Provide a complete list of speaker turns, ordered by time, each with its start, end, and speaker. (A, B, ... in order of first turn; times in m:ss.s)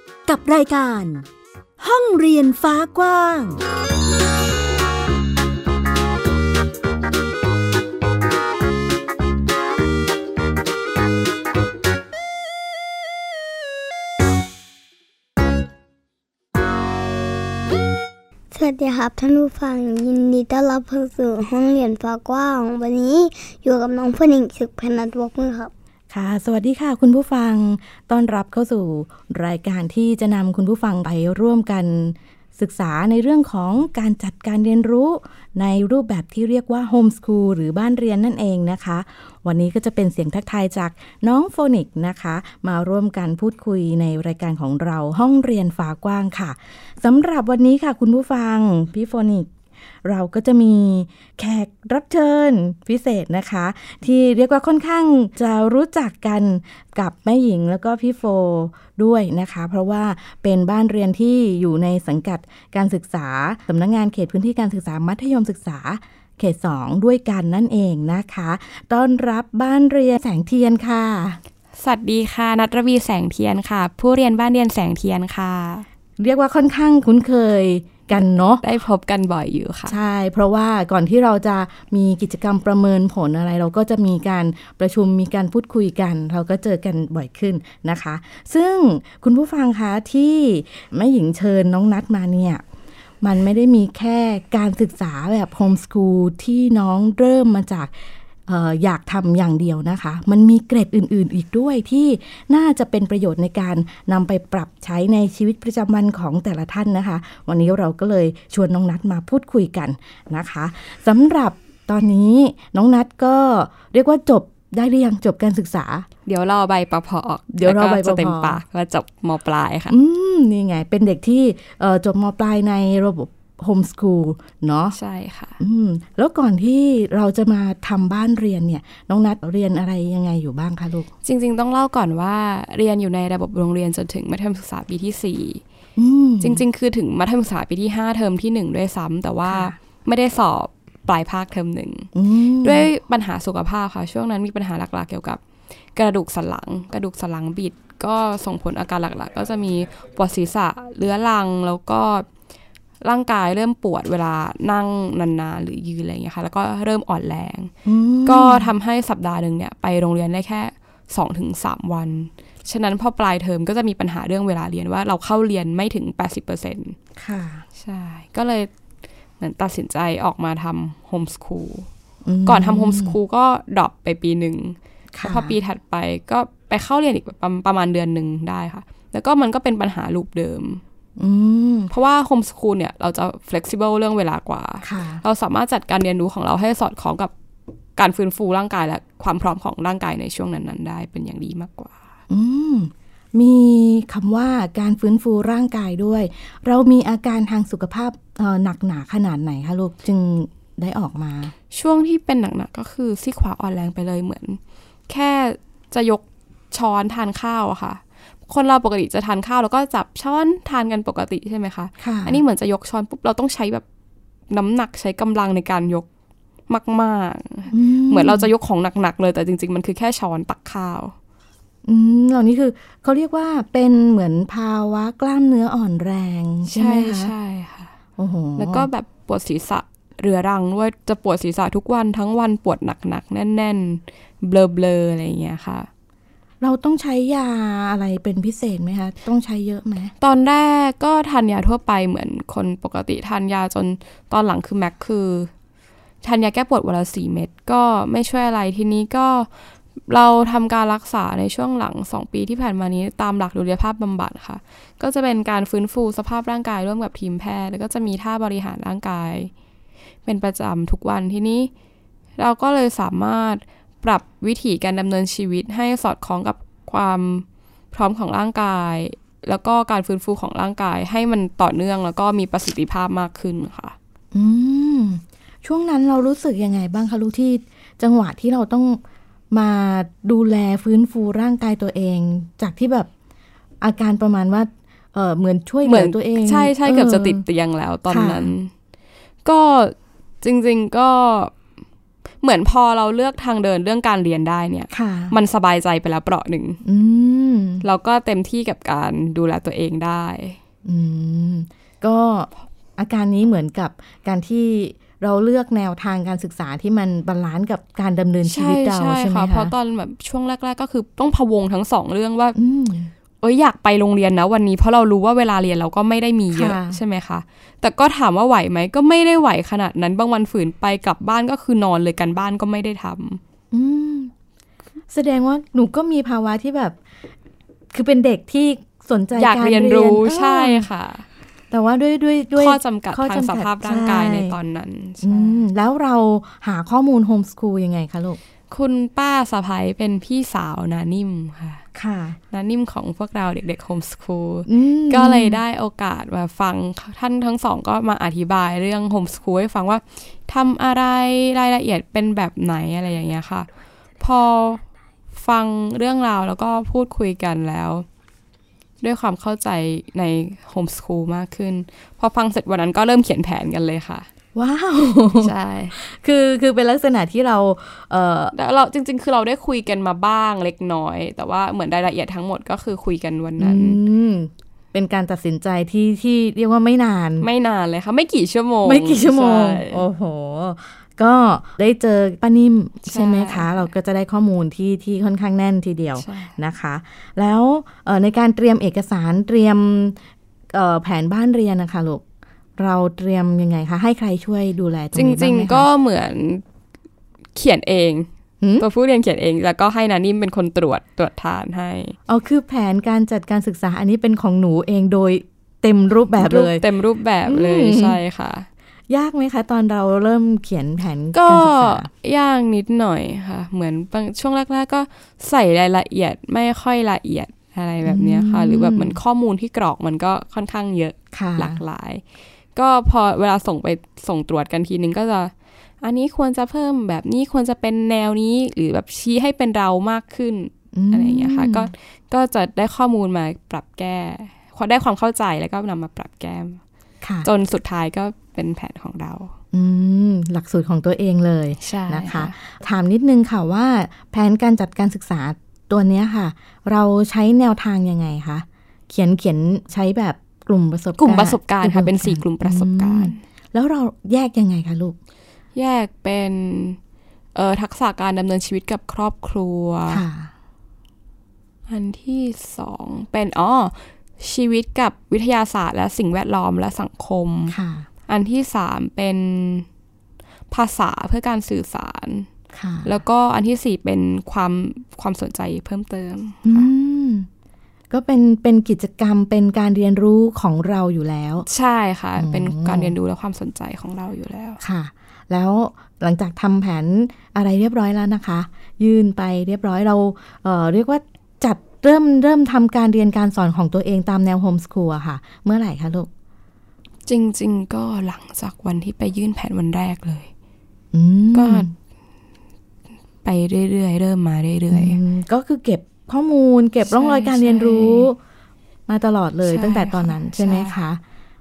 0:00.2-0:01.2 A
0:01.8-0:03.6 A
0:18.5-0:25.7 B
0:26.1-0:49.5 C
0:50.0-1:11.4 C
1:11.8-1:15.8 D
1:16.2-1:18.6 C
1:18.6-1:20.0 D
1:19.9-1:32.6 C
1:33.2-1:37.9 C
1:38.5-1:56.1 C
1:56.2-1:59.9 D
1:57.5-1:58.6 C
1:59.9-2:05.0 C
2:04.9-2:05.6 D
2:05.6-2:11.1 C
2:11.2-2:15.6 D
2:16.0-2:16.6 C
2:16.4-2:22.1 D
2:19.4-2:19.8 C
2:22.1-2:22.9 C
2:22.6-2:25.4 D
2:26.0-2:32.3 D
2:33.0-2:37.7 D
2:37.8-2:38.7 C
2:38.2-2:47.0 D
2:47.2-2:47.6 C
2:47.8-2:48.7 D
2:49.4-2:51.9 D
2:52.2-2:53.2 C
2:52.4-3:00.8 D
2:55.1-2:55.6 C
3:01.2-3:01.9 C
3:01.9-3:07.3 D
3:04.8-3:05.2 C
3:08.0-3:12.0 D
3:12.3-3:21.5 C
3:21.7-3:33.8 D
3:32.0-3:32.4 C
3:34.5-3:36.1 D
3:36.7-3:41.1 D
3:37.7-3:38.5 C
3:41.8-3:47.3 C
3:46.6-3:47.9 D
3:48.2-3:48.9 C
3:48.6-3:55.9 D
3:56.6-4:00.1 C
4:00.2-4:05.5 D
4:06.2-4:09.5 D
4:10.1-4:19.5 D
4:20.2-4:21.7 D
4:22.4-4:34.0 D
4:34.3-4:39.0 C
4:39.5-4:43.1 C
4:43.8-4:47.4 C
4:45.8-4:48.7 D
4:48.1-4:48.5 C
4:49.4-4:51.5 D
4:52.4-4:56.8 D
4:54.9-4:55.3 C
4:56.8-4:57.8 C
4:57.8-5:00.6 D
5:00.8-5:09.7 C
5:08.4-5:12.6 D
5:12.6-5:13.1 C
5:13.4-5:23.4 D
5:16.5-5:17.0 C
5:23.7-5:24.3 C
5:25.1-5:27.0 C
5:27.9-5:30.9 C
5:29.4-5:31.2 D
5:31.7-5:34.6 C
5:32.6-5:35.6 D
5:35.2-5:38.4 C
5:38.7-5:41.8 D
5:41.9-5:42.4 C
5:42.5-5:53.7 D
5:44.7-5:45.6 C
5:54.2-5:58.0 D
5:59.0-6:04.3 D
6:04.5-6:08.5 C
6:05.4-6:06.0 D
6:08.5-6:14.0 D
6:13.6-6:17.5 C
6:17.4-6:20.0 D
6:18.8-6:30.2 C
6:23.0-6:23.8 D
6:26.2-6:26.6 D
6:30.7-6:32.2 C
6:32.8-6:35.9 C
6:35.1-6:36.6 D
6:37.5-6:42.2 D
6:38.6-6:38.8 C
6:42.3-6:46.8 C
6:46.4-6:48.7 D
6:47.4-6:48.2 C
6:49.1-6:52.1 C
6:51.3-7:02.2 D
6:58.0-6:59.2 C
7:01.3-7:01.8 C
7:02.7-7:16.8 D
7:10.9-7:11.9 C
7:17.2-7:17.5 C
7:17.4-7:19.5 D
7:19.7-7:35.2 C
7:21.8-7:22.5 D
7:31.2-7:33.4 D
7:35.7-7:37.0 D
7:37.5-7:40.2 D
7:40.1-7:40.5 C
7:41.9-7:47.7 D
7:47.7-7:48.1 C
7:48.3-7:49.9 D
7:50.7-7:52.5 D
7:52.7-7:53.2 C
7:53.0-7:56.9 D
7:56.6-7:57.5 C
7:58.1-8:01.6 C
8:01.7-8:04.8 D
8:02.4-8:03.1 C
8:04.8-8:16.3 C
8:17.3-8:20.5 D
8:21.1-8:21.9 C
8:21.5-8:21.9 D
8:23.4-8:25.2 D
8:24.9-8:28.4 C
8:27.1-8:28.3 D
8:29.1-8:31.2 C
8:29.6-8:30.9 D